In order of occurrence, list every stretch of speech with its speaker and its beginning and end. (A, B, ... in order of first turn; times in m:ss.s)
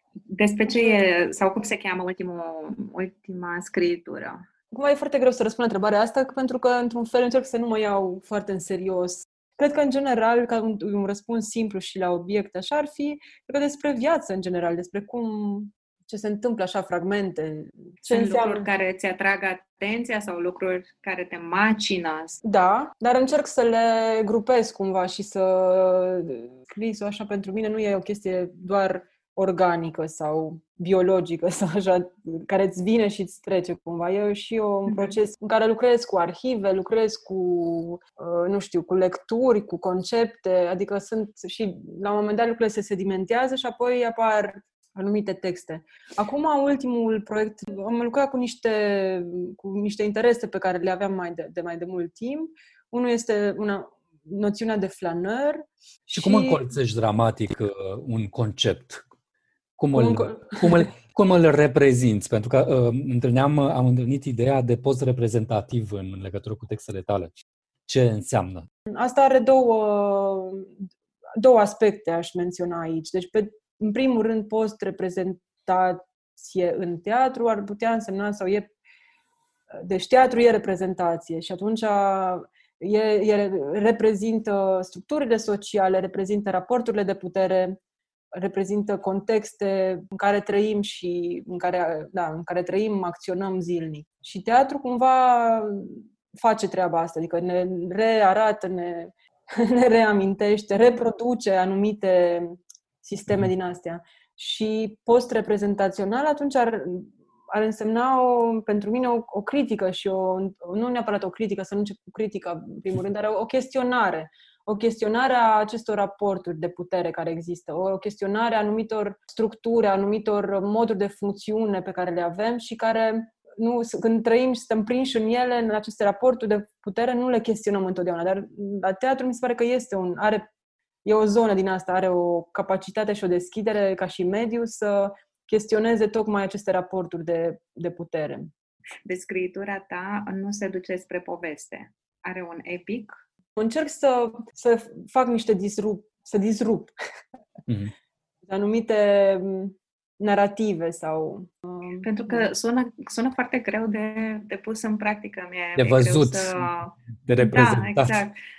0:00.3-0:04.4 A
0:04.7-0:18.7 B
0:18.0-0:22.4 A
0:22.4-0:56.6 B
0:56.2-0:59.0 C
0:59.8-1:07.3 C
0:59.9-1:00.9 B
1:07.9-1:08.7 C
1:08.9-1:10.7 B
1:11.4-1:18.7 B
1:19.7-1:27.8 B
1:28.3-2:10.5 B
2:11.0-2:18.5 B
2:19.0-2:23.2 A
2:23.6-2:26.9 B
2:27.7-2:27.9 C
2:28.5-2:32.5 B
2:32.0-2:38.4 A
2:35.8-2:36.7 C
2:37.2-2:38.2 C